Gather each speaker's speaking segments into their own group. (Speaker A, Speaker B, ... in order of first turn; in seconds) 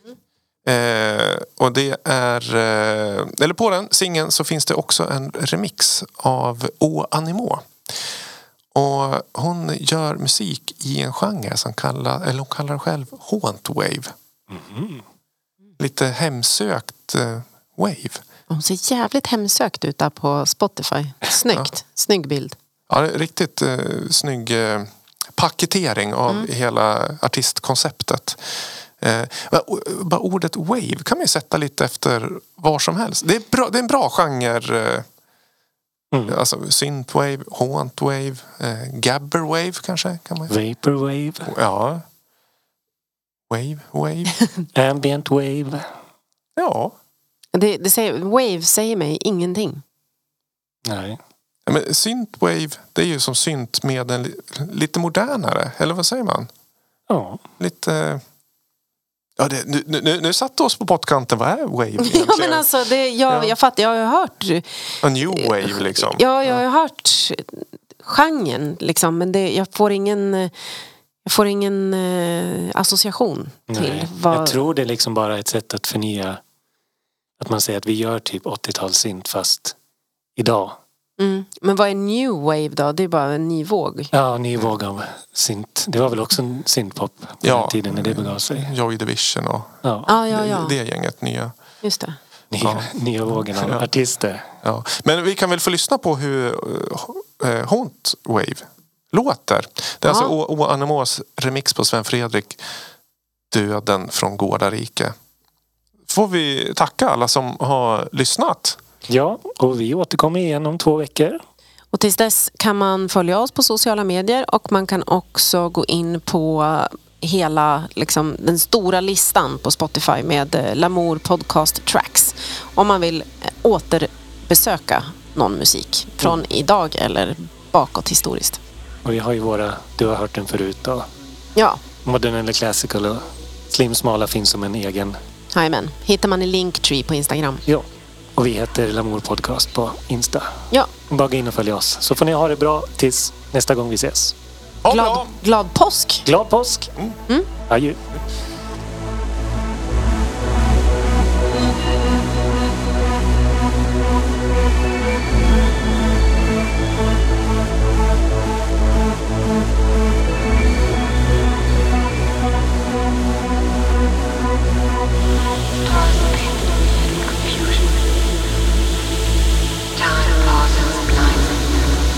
Speaker A: 0.7-7.7, 8.7-14.1, 15.8-18.2, 22.9-35.1, 36.3-40.5, 41.5-42.0, 43.5-44.3, 46.6-47.0, 51.7-56.5, 57.6-58.2, 59.4-62.7, 63.3-63.5, 65.0-66.6, 87.4-89.7, 90.3-91.5, 92.6-92.9, 93.4-93.9, 94.6-102.6, 103.5-105.1, 106.1-108.8, 144.8-145.3
Speaker B: 14.5-15.0, 36.1-36.4, 40.5-41.5, 44.8-45.9, 50.9-51.2, 57.1-57.4, 73.7-76.4, 77.4-79.8, 80.4-80.8, 84.1-88.7, 89.8-90.1, 92.5-94.5, 109.1-111.4, 129.1-131.1, 132.1-135.2, 138.4-144.3, 146.3-146.9, 147.7-148.0
Speaker C: 18.5-22.6, 47.5-49.8, 62.0-64.7, 65.2-70.5, 71.2-74.6, 81.2-84.1, 90.1-90.8, 91.8-92.2, 100.1-100.3, 111.9-128.6, 131.6-131.8, 135.5-137.7, 144.9-146.2, 166.1-167.7, 170.1-171.5